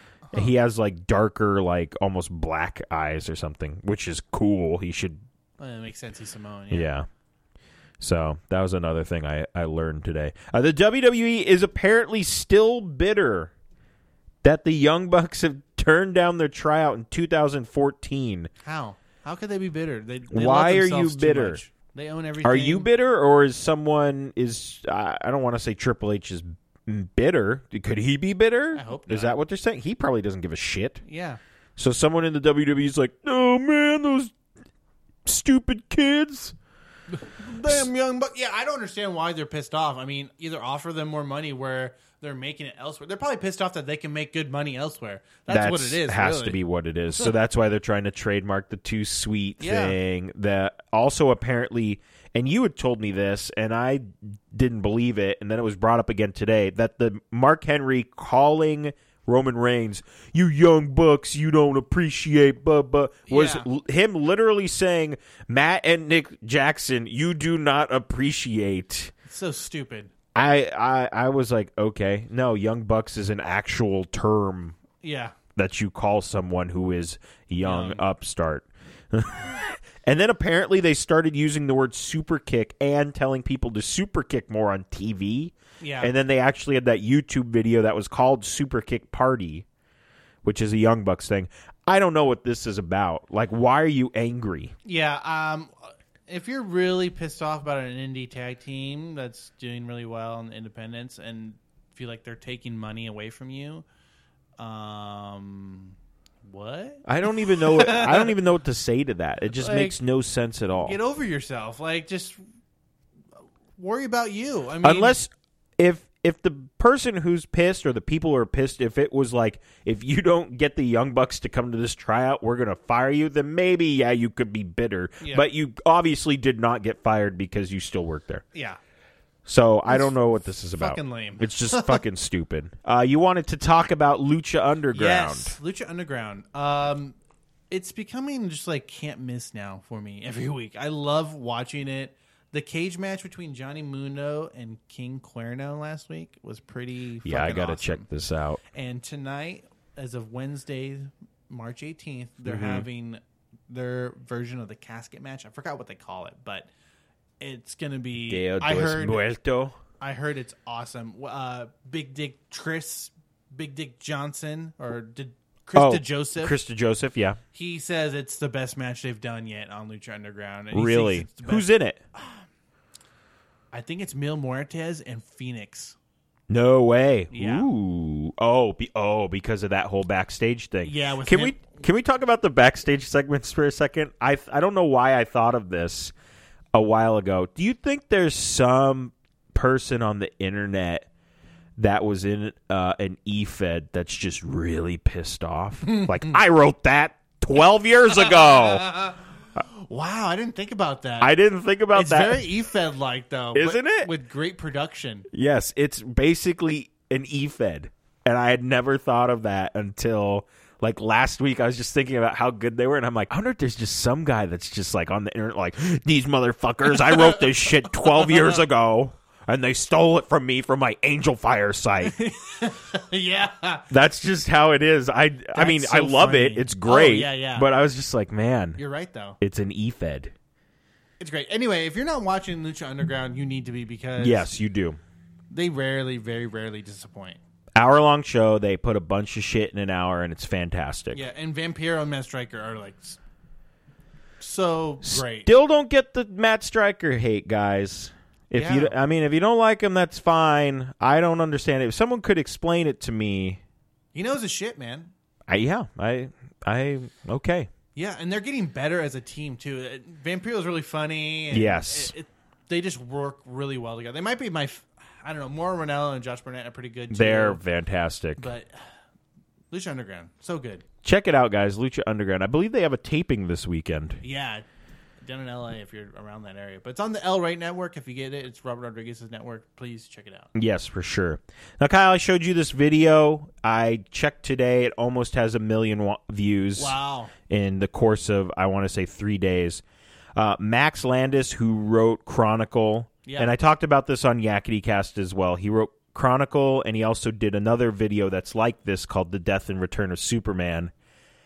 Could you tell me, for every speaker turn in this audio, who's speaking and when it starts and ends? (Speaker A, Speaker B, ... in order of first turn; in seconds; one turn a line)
Speaker A: 0.3-0.5
Speaker B: 0.3-5.2
Speaker A: 5.6-6.9
Speaker B: 6.7-7.1
Speaker B: 8.0-13.5
Speaker B: 14.4-18.5
Speaker A: 18.6-22.9
Speaker B: 20.3-21.6
Speaker B: 22.4-31.0
Speaker A: 28.7-29.4
Speaker A: 31.0-31.4
Speaker B: 31.8-34.3
Speaker B: 35.2-36.5
Speaker A: 37.1-46.6
Speaker B: 37.6-37.9
Speaker B: 45.5-69.1
Speaker A: 49.6-50.0
Speaker A: 63.3-63.7
Speaker A: 69.3-70.1
Speaker B: 70.3-74.8
Speaker A: 75.0-75.4
Speaker B: 75.5-89.7
Speaker A: 77.6-78.0
Speaker A: 85.8-86.1
Speaker B: 90.4-94.7
Speaker A: 94.8-103.8
Speaker A: 104.6-108.3
Speaker B: 107.0-111.0
Speaker A: 109.5-110.0
Speaker A: 110.8-112.4
Speaker A: 113.8-115.2
Speaker B: 114.8-128.4
Speaker A: 125.2-125.5
Speaker A: 128.5-128.8
Speaker B: 129.5-135.6
Speaker A: 129.9-130.1
Speaker A: 130.7-132.0
Speaker A: 134.9-137.2
Speaker A: 137.7-148.1
Speaker B: 147.2-148.6
Speaker A: 148.7-156.7
Speaker B: 152.4-152.9
Speaker A: 157.4-159.3
Speaker B: 158.3-159.8
Speaker A: 160.0-166.6
Speaker B: 165.8-167.4
Speaker A: 167.5-172.4
Speaker B: 170.7-172.0
Speaker A: 173.7-176.0
Speaker B: 176.5-186.1
Speaker A: 177.3-177.7
Speaker A: 180.8-181.6
Speaker B: 186.7-191.1
Speaker B: 191.8-198.9
Speaker A: 195.8-196.4
Speaker A: 198.2-201.4
Speaker B: 201.2-202.5
Speaker A: 201.9-205.3
Speaker B: 203.5-204.1
Speaker B: 205.3-222.2
Speaker A: 217.1-217.4
Speaker A: 218.1-218.6
Speaker A: 222.0-223.9
Speaker B: 223.9-228.8
Speaker A: 225.5-227.7
Speaker A: 228.8-229.4
Speaker B: 229.4-230.3
Speaker A: 231.2-234.5
Speaker B: 234.2-235.0
Speaker A: 235.5-237.4
Speaker B: 237.8-241.2
Speaker A: 241.1-243.2
Speaker A: 244.4-245.5
Speaker B: 245.0-253.6
Speaker A: 248.6-248.9
Speaker A: 254.2-255.1
Speaker B: 255.5-257.7
Speaker A: 257.9-267.6
Speaker B: 261.5-262.1
Speaker B: 267.1-268.5
Speaker A: 268.4-268.8
Speaker A: 269.7-270.8
Speaker B: 271.0-274.2
Speaker A: 274.2-274.6
Speaker A: 275.2-280.5
Speaker B: 280.6-287.0
Speaker A: 286.8-287.3
Speaker B: 287.5-289.8
Speaker B: 290.4-300.9
Speaker A: 293.3-293.5